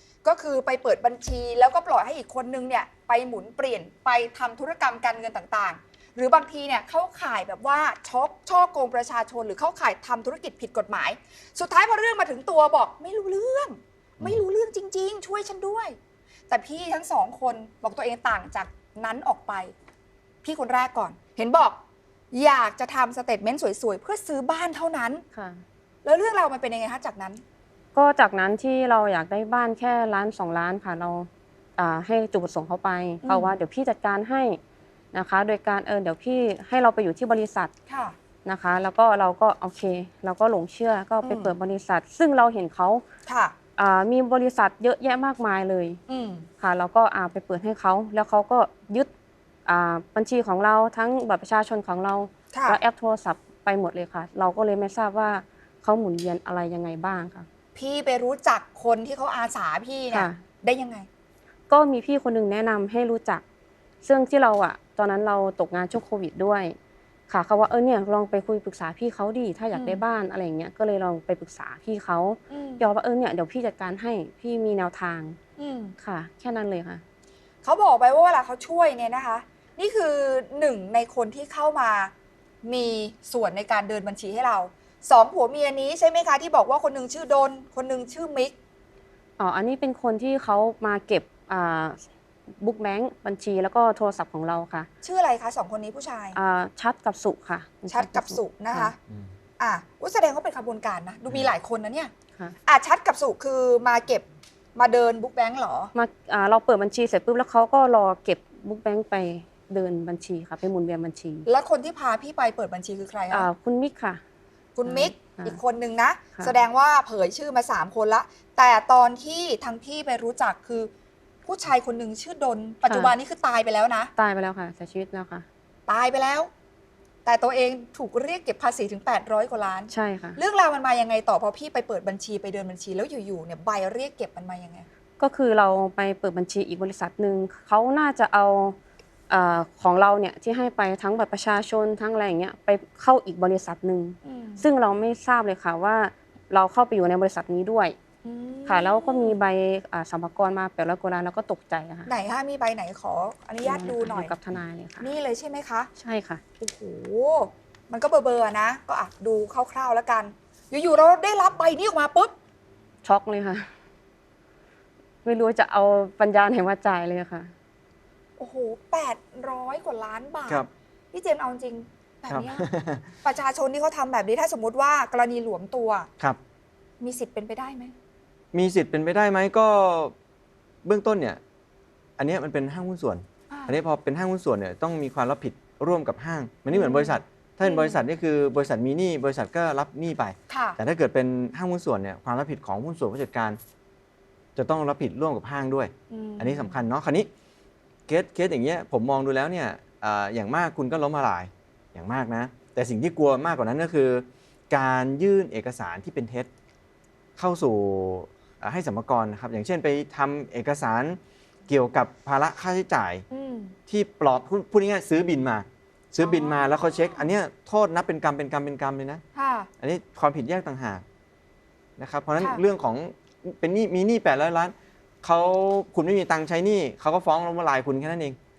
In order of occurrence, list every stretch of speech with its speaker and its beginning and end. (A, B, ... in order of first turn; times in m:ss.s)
0:00.2-0:16.0 A
0:16.5-0:19.7 A
0:20.4-0:21.8 A
0:22.3-0:25.2 A
0:25.3-0:25.6 B
0:26.0-0:27.4 A
0:27.9-0:34.6 B
0:33.2-0:33.5 A
0:35.1-0:37.7 B
0:37.9-0:38.2 A
0:38.4-0:43.0 B
0:41.2-0:41.5 A
0:43.3-0:43.5 A
0:43.8-0:46.0 B
0:46.1-0:46.5 A
0:46.6-0:49.1 B
0:49.6-0:57.5 B
0:52.5-0:52.8 A
0:57.7-1:01.1 A
1:00.1-1:00.4 B
1:01.7-1:03.4 B
1:04.0-1:06.8 B
1:07.3-1:15.4 B
1:09.7-1:10.0 A
1:12.5-1:12.8 A
1:15.6-1:15.9 A
1:16.0-1:17.0 B
1:17.6-1:22.1 A
1:22.6-1:28.5 A
1:29.4-1:34.9 B
1:35.0-1:36.4 A
1:36.3-1:38.9 B
1:37.9-1:39.0 A
1:39.6-1:42.1 A
1:42.6-1:44.2 A
1:44.8-1:45.9 A
1:45.9-1:51.5 B
1:51.5-1:53.5 A
1:53.3-1:54.2 B
1:54.8-2:00.9 A
1:54.8-1:55.6 B
2:01.4-2:04.1 A
2:02.8-2:03.1 B
2:04.2-2:05.4 B
2:05.9-2:06.5 A
2:07.2-2:14.8 A
2:09.9-2:10.4 B
2:15.2-2:18.8 B
2:19.3-2:28.0 B
2:24.2-2:24.6 A
2:28.2-2:29.3 A
2:28.7-2:32.1 B
2:32.1-2:34.3 A
2:33.6-2:35.1 B
2:35.0-2:35.9 A
2:36.0-2:36.4 B
2:36.6-2:42.3 A
2:43.0-2:43.7 B
2:45.2-2:47.5 B
2:48.4-2:52.6 A
2:52.3-2:53.1 C
2:53.2-2:56.1 A
2:57.0-2:57.9 A
2:58.5-3:00.1 C
3:00.8-3:01.4 C
3:02.2-3:13.6 C
3:03.5-3:03.8 A
3:06.7-3:08.0 A
3:10.5-3:10.8 A
3:14.6-3:17.3 C
3:16.1-3:16.7 A
3:18.1-3:26.5 C
3:27.4-3:33.2 C
3:33.3-3:33.8 A
3:33.9-3:39.2 C
3:36.2-3:36.6 A
3:39.3-3:39.7 A
3:39.8-3:41.0 C
3:42.0-3:48.4 C